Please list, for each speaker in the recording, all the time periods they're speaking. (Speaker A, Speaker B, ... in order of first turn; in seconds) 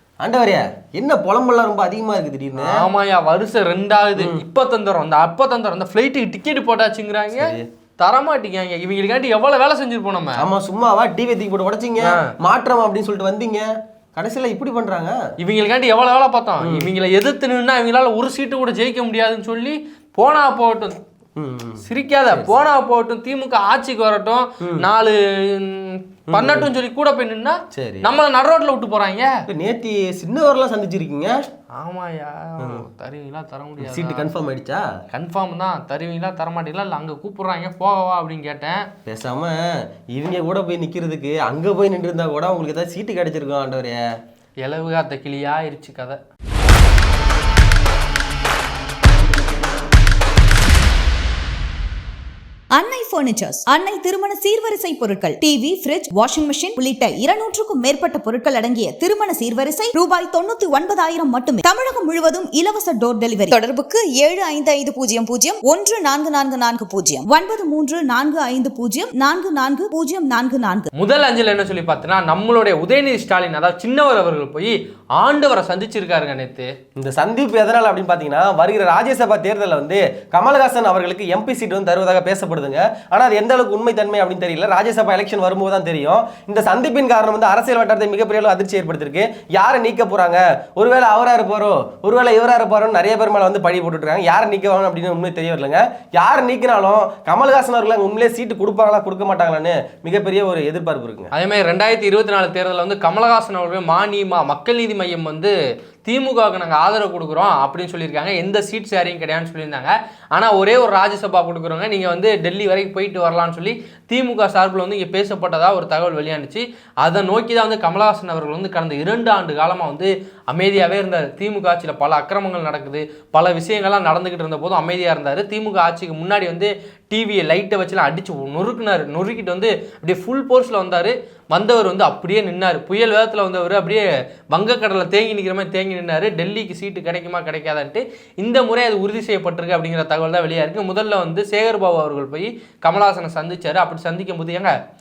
Speaker A: 0.2-2.8, 4.2-4.4, 7.3-7.7, 10.4-15.2, 16.6-16.9, 21.4-22.7, 24.6-24.9, 26.3-26.7, 27.7-28.1, 29.5-31.4, 32.6-32.9, 33.8-34.9, 39.1-44.0, 77.0-101.3
Speaker B: 2.6-10.4, 12.0-12.3, 15.4-21.0, 21.9-29.4, 31.8-34.3, 35.1-38.9, 44.6-46.2, 71.0-76.7, 101.3-105.5, 106.0-144.8
Speaker C: 52.8-70.9